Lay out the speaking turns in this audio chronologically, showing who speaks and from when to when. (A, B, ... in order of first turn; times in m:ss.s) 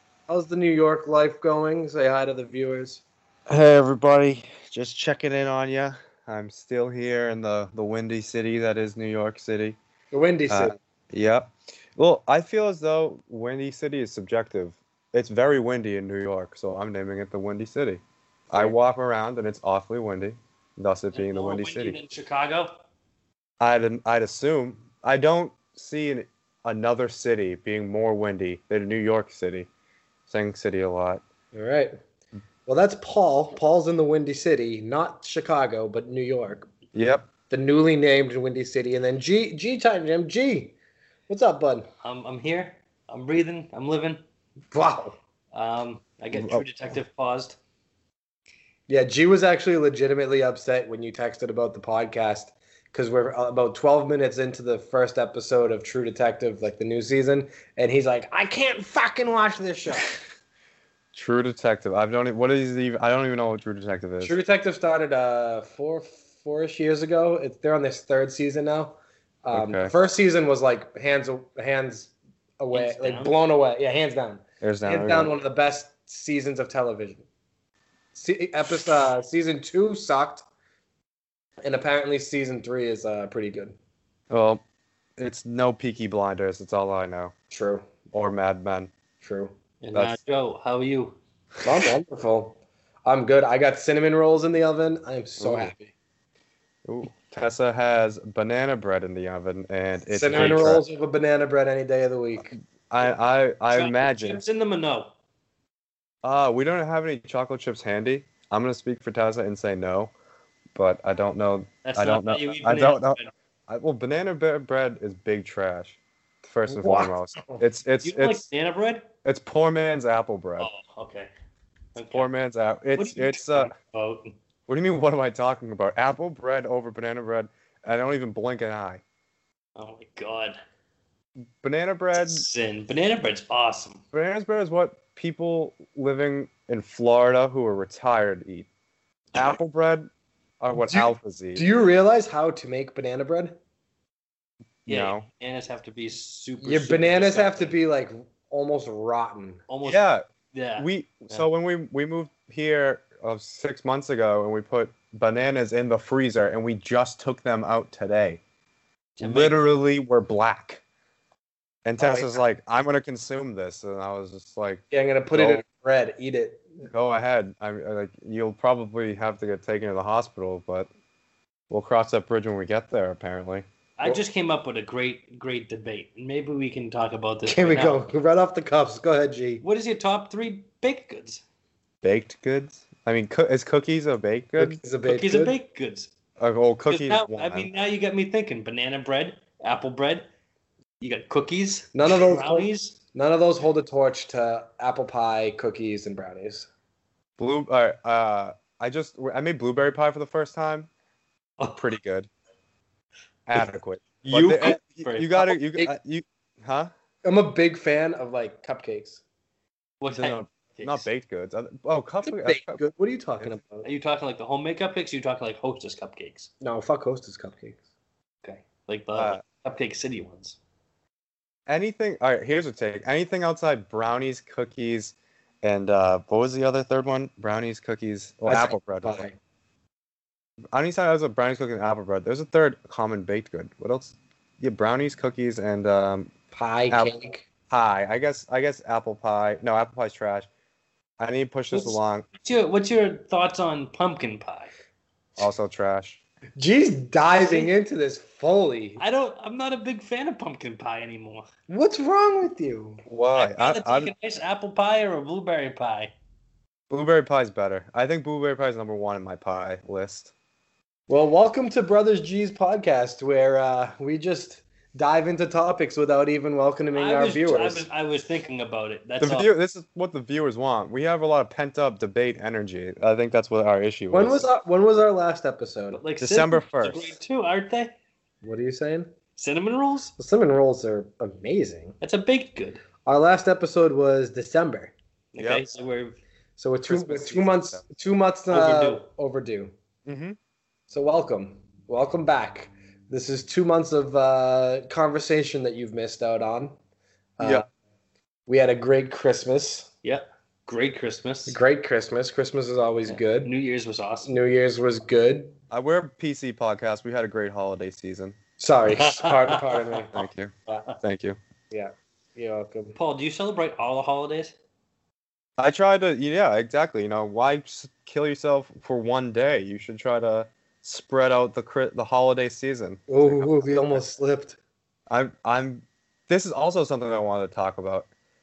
0:00.3-0:03.0 A
0:03.5-0:09.8 B
0:10.1-0:10.8 A
0:10.5-0:22.0 B
0:21.1-0:22.8 C
0:23.6-0:29.7 B
0:30.3-0:31.2 B
0:31.5-0:32.0 A
0:32.6-0:36.7 A
0:36.9-0:37.3 B
0:37.5-0:40.8 A
0:41.3-0:41.9 A
0:42.0-0:44.2 C
0:44.7-0:45.1 A
0:45.5-0:47.6 C
0:46.3-0:46.7 B
0:48.9-1:00.1 A
1:01.1-1:04.3 B
1:04.2-1:17.2 A
1:09.5-1:09.9 B
1:12.7-1:13.3 C
1:14.6-1:15.3 B
1:18.1-1:20.4 A
1:21.6-1:23.8 A
1:24.3-1:24.6 B
1:25.2-1:27.3 B
1:27.5-1:27.9 A
1:28.1-1:28.9 B
1:29.2-1:29.5 A
1:29.8-1:31.2 C
1:29.9-1:30.2 B
1:31.6-1:35.9 A
1:35.4-1:35.7 B
1:36.8-1:40.8 B
1:40.1-1:42.5 A
1:40.3-1:40.8 C
1:42.5-1:44.4 B
1:43.7-1:45.1 C
1:46.2-1:50.1 B
1:50.7-1:58.4 B
1:51.8-1:53.3 C
1:56.7-1:57.6 A
1:58.0-1:59.1 C
1:59.2-2:00.7 B
2:00.6-2:01.3 C
2:01.9-2:02.3 C
2:02.1-2:03.7 B
2:03.0-2:04.3 C
2:04.7-2:09.0 B
2:09.8-2:10.6 C
2:11.6-2:12.4 B
2:12.1-2:14.0 C
2:14.1-2:18.7 B
2:19.3-2:20.1 B
2:20.6-2:21.6 B
2:20.8-2:23.6 A
2:24.8-2:25.2 B
2:24.9-2:27.8 C
2:26.6-2:29.6 A
2:29.7-2:30.0 C
2:29.8-2:30.2 B
2:30.5-2:31.4 C
2:30.8-2:38.4 B
2:39.2-2:39.6 C
2:39.2-2:40.8 B
2:41.8-2:45.6 B
2:42.0-2:42.4 A
2:44.9-2:46.8 A
2:46.9-2:50.9 B
2:51.7-2:53.6 B
2:54.0-2:58.0 C
2:57.4-2:59.6 A
2:59.6-3:01.4 C
3:02.0-3:04.8 B
3:04.6-3:05.6 A
3:05.0-3:06.1 C
3:06.4-3:07.7 B
3:06.9-3:10.3 C
3:11.0-3:13.0 C
3:11.9-3:16.7 A
3:17.4-3:20.9 B
3:21.7-3:22.3 B
3:23.5-3:26.9 B
3:24.2-3:25.6 C
3:27.2-3:29.2 A
3:30.0-3:31.1 C
3:30.1-3:32.8 B
3:32.2-3:33.9 A
3:33.8-3:36.5 C
3:36.6-3:37.8 A
3:38.4-3:40.6 C
3:39.1-3:39.4 B
3:41.7-3:49.2 B
3:48.5-3:49.4 A
3:50.7-3:56.3 B
3:56.5-3:57.4 A
3:57.7-4:00.5 B
4:01.2-4:02.3 B
4:01.7-4:04.7 C
4:05.4-4:06.2 B
4:06.6-4:09.0 A
4:07.4-4:07.7 C
4:09.0-4:11.4 C
4:11.7-4:13.0 A
4:13.0-4:14.1 B
4:13.4-4:16.1 C
4:16.9-4:20.3 B
4:21.1-4:27.9 A
4:26.9-4:29.5 C
4:29.2-4:34.4 B
4:34.1-4:36.0 A
4:35.9-4:37.9 C
4:36.2-4:37.2 B
4:38.4-4:39.1 A
4:39.4-4:40.1 C
4:40.2-4:42.0 A
4:42.0-4:42.8 C
4:43.0-4:44.9 A
4:45.3-4:46.2 C
4:45.4-4:45.6 B
4:46.6-4:49.7 A
4:46.8-4:47.8 B
4:48.5-4:49.0 C
4:50.0-4:50.4 B
4:50.9-4:56.7 A
4:57.4-4:57.6 A
4:57.4-4:57.6 B
4:58.5-4:59.9 A
5:00.0-5:01.6 C
5:01.5-5:03.5 A
5:03.2-5:04.3 C
5:04.2-5:05.6 A
5:05.7-5:08.4 B
5:08.6-5:10.8 A
5:09.0-5:09.9 C
5:10.1-5:11.4 B
5:11.7-5:13.0 A
5:13.0-5:14.6 C
5:15.6-5:24.0 B
5:23.1-5:24.6 A
5:25.1-5:28.1 B